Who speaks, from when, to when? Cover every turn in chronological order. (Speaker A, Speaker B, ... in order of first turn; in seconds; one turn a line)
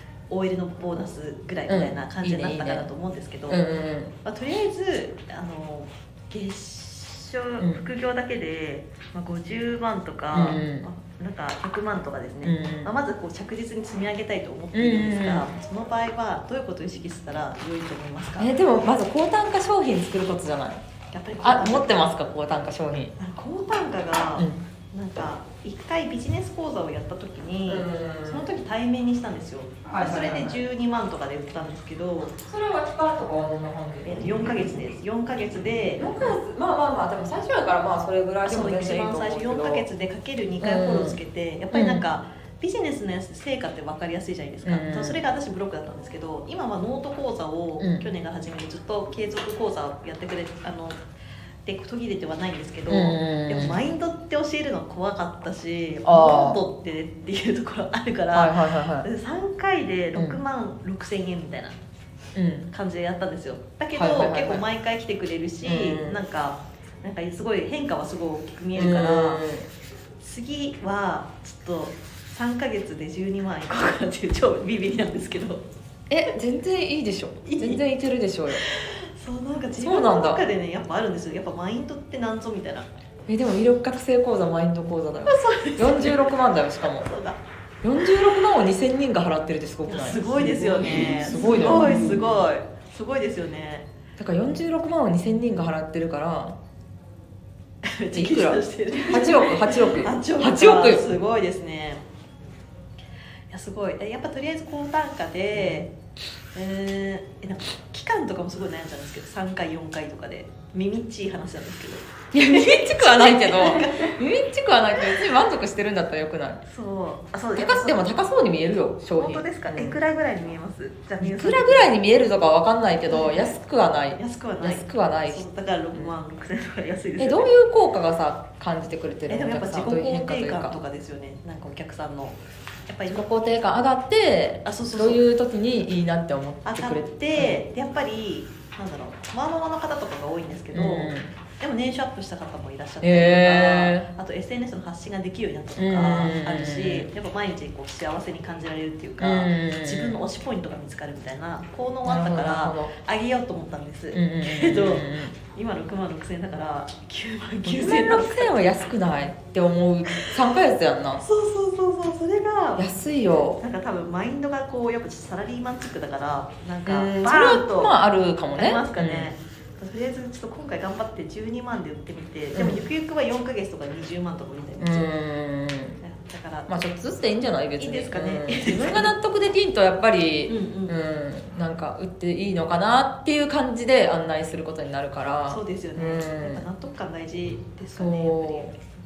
Speaker A: 0.3-3.6
Speaker B: 1.7-2.9
Speaker B: 3.5-4.1
Speaker A: 4.2-18.5
Speaker B: 10.3-10.9
Speaker B: 12.4-12.9
Speaker B: 14.7-15.5
Speaker B: 18.4-20.8
Speaker A: 21.1-22.0
Speaker B: 21.4-23.1
Speaker A: 23.2-32.3
Speaker B: 27.7-28.5
Speaker B: 29.9-30.6
Speaker B: 32.5-34.3
Speaker A: 34.0-36.0
Speaker B: 36.0-39.9
Speaker A: 38.5-51.0
Speaker B: 40.6-41.2
Speaker B: 41.7-42.0
Speaker B: 44.6-45.2
Speaker B: 47.8-48.0
Speaker A: 51.6-61.8
Speaker B: 52.9-53.8
Speaker B: 56.0-56.6
Speaker B: 58.3-59.1
Speaker B: 62.4-62.7
Speaker A: 62.7-69.4
Speaker B: 64.0-64.6
Speaker B: 65.6-66.2
Speaker B: 68.8-69.7
Speaker A: 70.2-75.7
Speaker B: 76.1-78.6
Speaker A: 77.4-77.8
Speaker A: 78.5-82.9
Speaker B: 79.8-80.4
Speaker B: 83.3-87.1
Speaker A: 85.3-86.3
Speaker A: 87.0-87.4
Speaker B: 87.8-92.4
Speaker A: 89.9-93.9
Speaker B: 94.2-96.6
Speaker A: 97.8-102.0
Speaker B: 98.1-101.0
Speaker A: 103.5-105.9
Speaker B: 105.5-105.8
Speaker A: 106.5-114.2
Speaker B: 112.3-116.6
Speaker A: 116.6-118.1
Speaker B: 117.6-120.0
Speaker A: 119.1-121.9
Speaker B: 121.2-126.2
Speaker A: 123.1-123.5
Speaker A: 124.2-127.5
Speaker B: 127.2-130.8
Speaker A: 129.3-133.2
Speaker B: 133.1-137.6
Speaker A: 134.7-135.2
Speaker A: 136.7-158.5
Speaker B: 140.7-141.3
Speaker B: 143.0-144.1
Speaker B: 145.8-147.1
Speaker B: 149.2-150.2
Speaker B: 152.1-152.9
Speaker B: 154.1-155.3
Speaker B: 157.6-161.2
Speaker A: 161.2-162.9
Speaker B: 162.8-163.6
Speaker A: 163.6-168.0
Speaker B: 166.9-169.3
Speaker A: 168.5-175.1
Speaker B: 172.6-172.8
Speaker B: 174.8-176.0
Speaker A: 176.0-176.7
Speaker B: 176.7-186.7
Speaker A: 177.8-179.1
Speaker A: 180.5-181.0
Speaker A: 185.5-188.8
Speaker B: 188.0-188.8